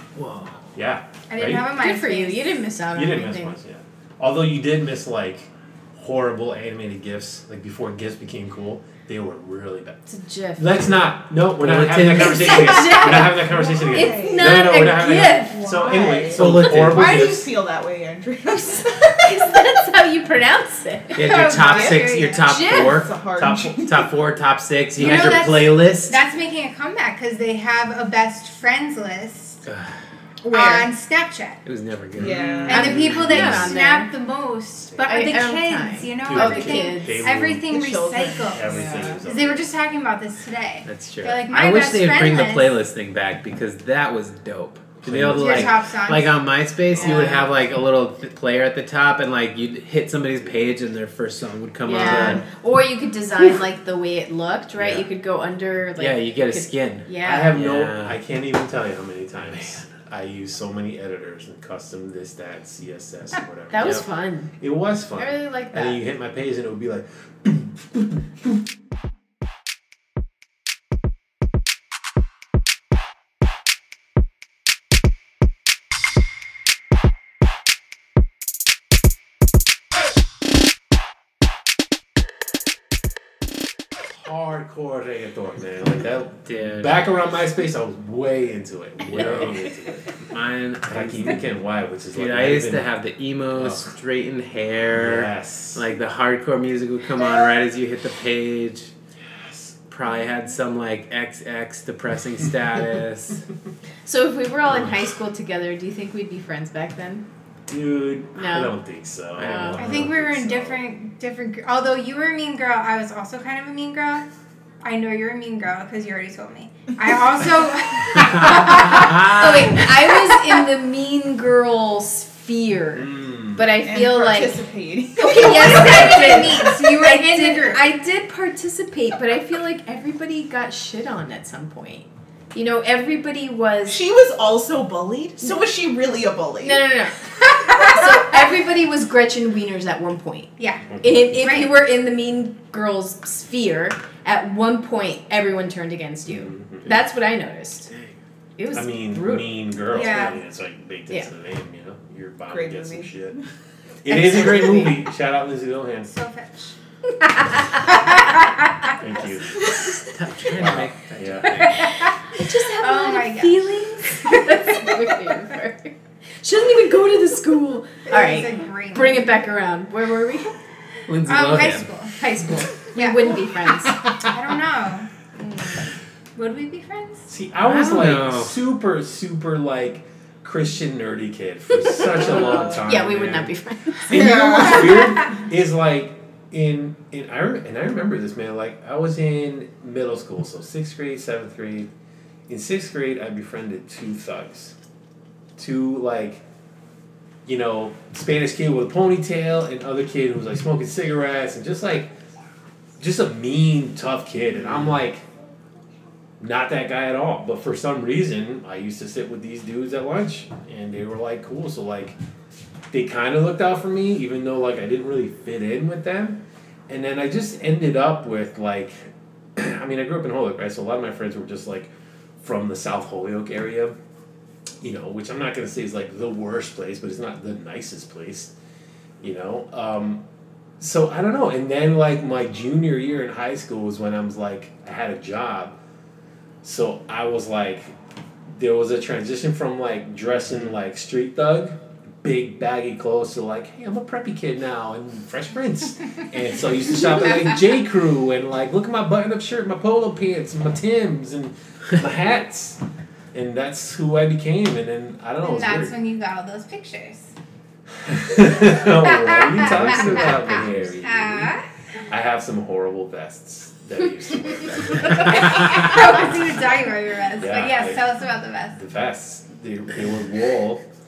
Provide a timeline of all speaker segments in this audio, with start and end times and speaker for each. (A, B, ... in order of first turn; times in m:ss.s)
0:00.2-0:00.7 A
0:00.8-0:01.7 B
0:01.3-0:02.4 C
0:01.7-0:03.6 D
0:02.9-0:10.0 B
0:10.1-0:11.0 D
0:10.6-0:17.5 B
0:11.6-0:13.0 A
0:12.1-0:16.0 D
0:13.4-0:14.6 E
0:15.5-0:19.5 E
0:16.2-0:17.3 A
0:18.5-0:21.3 D
0:21.2-0:26.2 A
0:21.2-0:22.6 C
0:21.5-0:24.1 E
0:22.4-0:23.0 D
0:23.4-0:23.7 B
0:25.0-0:29.6 C
0:25.0-0:25.4 B
0:29.7-0:29.9 A
0:30.4-0:30.9 E
0:30.5-0:31.6 C
0:31.6-0:33.7 A
0:32.2-0:32.9 E
0:32.2-0:33.6 B
0:32.7-0:42.8 C
0:32.7-0:34.1 D
0:35.0-0:37.2 D
0:36.3-0:37.8 B
0:37.8-0:39.2 E
0:38.4-0:39.7 B
0:40.8-0:52.4 A
0:45.0-0:45.8 B
0:45.4-0:46.4 C
0:47.0-0:47.5 D
0:51.8-0:57.5 D
0:54.8-0:55.0 B
0:56.0-0:58.2 A
0:57.2-1:04.1 B
1:03.7-1:04.5 D
1:04.6-1:08.6 B
1:05.2-1:06.0 D
1:24.1-1:30.1 B
1:26.5-1:27.0 A
1:29.1-1:29.5 A
1:30.3-1:31.5 A
1:30.9-1:32.9 B
1:32.1-1:38.9 A
1:33.6-1:33.9 B
1:34.9-1:35.8 B
1:39.2-1:39.8 B
1:39.9-1:43.4 A
1:44.1-1:47.2 D
1:44.7-1:45.0 B
1:47.7-1:50.8 B
1:48.4-1:48.8 D
1:49.4-1:49.8 D
1:49.4-1:49.9 A
1:49.8-1:54.3 C
1:54.8-2:00.6 C
1:58.2-1:59.9 A
1:58.7-2:04.6 D
2:02.9-2:03.7 B
2:03.8-2:06.4 E
2:05.2-2:14.0 D
2:05.2-2:07.8 C
2:05.8-2:06.4 B
2:13.9-2:16.9 E
2:16.6-2:27.9 D
2:20.6-2:21.8 C
2:21.0-2:21.2 B
2:26.3-2:27.0 B
2:27.9-2:28.2 A
2:28.6-2:30.2 D
2:28.7-2:33.4 B
2:29.9-2:30.4 C
2:32.5-2:33.4 E
2:34.0-2:36.2 B
2:34.1-2:35.0 D
2:36.1-2:36.8 C
2:37.8-2:38.6 C
2:39.0-2:40.0 B
2:40.1-2:41.9 A
2:40.6-2:41.9 B
2:41.8-2:44.9 C
2:42.3-2:50.5 D
2:48.1-2:49.4 C
2:51.1-2:51.9 A
2:51.3-2:55.1 C
2:52.5-2:54.0 D
2:55.4-2:55.9 D
2:56.4-2:57.3 C
2:57.3-3:03.5 B
2:57.6-2:58.5 A
3:01.8-3:04.3 D
3:04.1-3:11.9 B
3:04.1-3:05.1 E
3:12.5-3:14.8 B
3:15.6-3:16.4 B
3:17.5-3:22.1 B
3:23.0-3:25.2 B
3:26.4-3:32.2 B
3:32.9-3:44.0 B
3:44.8-3:48.5 B
3:49.2-3:50.2 B
3:50.8-3:55.8 B
3:56.6-3:57.9 B
3:58.5-4:12.8 B
4:13.3-4:16.0 B
4:15.4-4:17.3 C
4:18.0-4:21.6 B
4:19.0-4:21.7 C
4:19.7-4:20.6 A
4:22.1-4:26.5 B
4:25.0-4:28.8 C
4:27.4-4:28.0 B
4:28.7-4:30.8 B